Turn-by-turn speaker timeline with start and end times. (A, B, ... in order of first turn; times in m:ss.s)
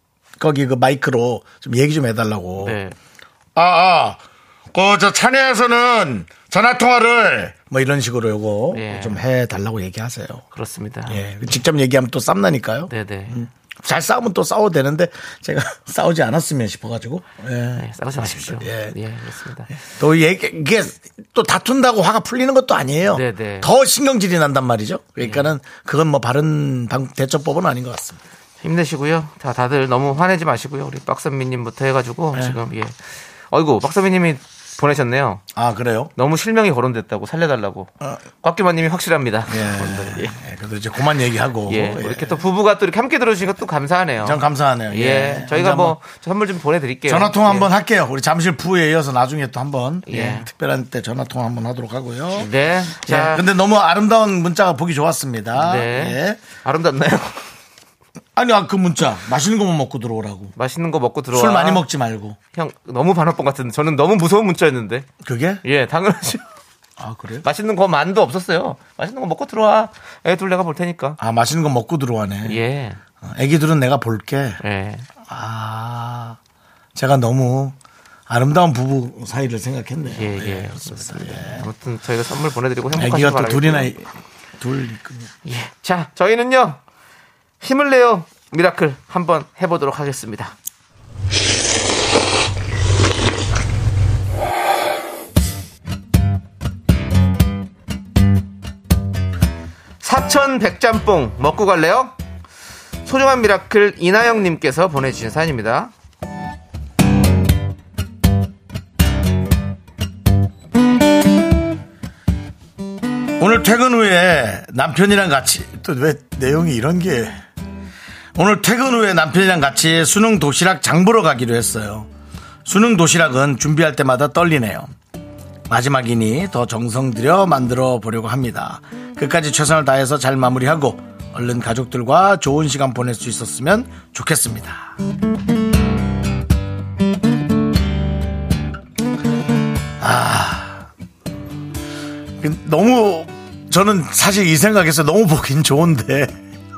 0:00.4-0:02.8 A
0:02.6-0:03.0 B
0:03.5-0:04.2 A
0:04.7-0:10.4 A
0:08.7-0:09.2 B
0:10.5-0:11.2 B
0:11.1-0:18.9 A
0:12.9-0:13.4 B
0:17.8-0:19.7 B
0:19.9-0:28.2 A
0:23.1-0:23.7 B
0:25.2-0:25.5 B
0:28.6-0:33.0 B
0:33.5-0:35.4 B
0:35.5-0:36.1 A
0:36.2-0:40.3 B
0:39.5-0:42.4 A
0:41.7-0:47.7 B
0:44.2-0:46.0 A
0:47.1-0:56.4 A
0:50.1-0:50.5 B
0:52.3-0:53.4 B
0:55.5-0:57.4 B
0:58.4-1:00.5 A
1:00.6-1:01.8 B
1:01.3-1:02.4 A
1:02.5-1:05.1 B
1:05.2-1:05.6 A
1:05.6-1:06.4 B
1:07.0-1:07.4 A
1:07.4-1:11.2 B
1:11.2-1:12.6 A
1:12.4-1:13.0 B
1:13.2-1:14.6 A
1:14.6-1:15.1 B
1:15.2-1:16.4 A
1:16.9-1:17.8 A
1:18.3-1:21.7 A
1:20.0-1:23.9 B
1:22.9-1:24.1 A
1:24.6-1:25.3 A
1:25.4-1:26.8 B
1:27.6-1:30.5 B
1:40.0-1:42.1 B
1:43.0-1:45.9 B
1:53.4-1:57.4 A
1:58.3-2:02.1 A
2:02.6-2:04.9 A
2:05.7-2:14.9 A
2:20.0-2:20.9 A
2:22.4-2:26.4 A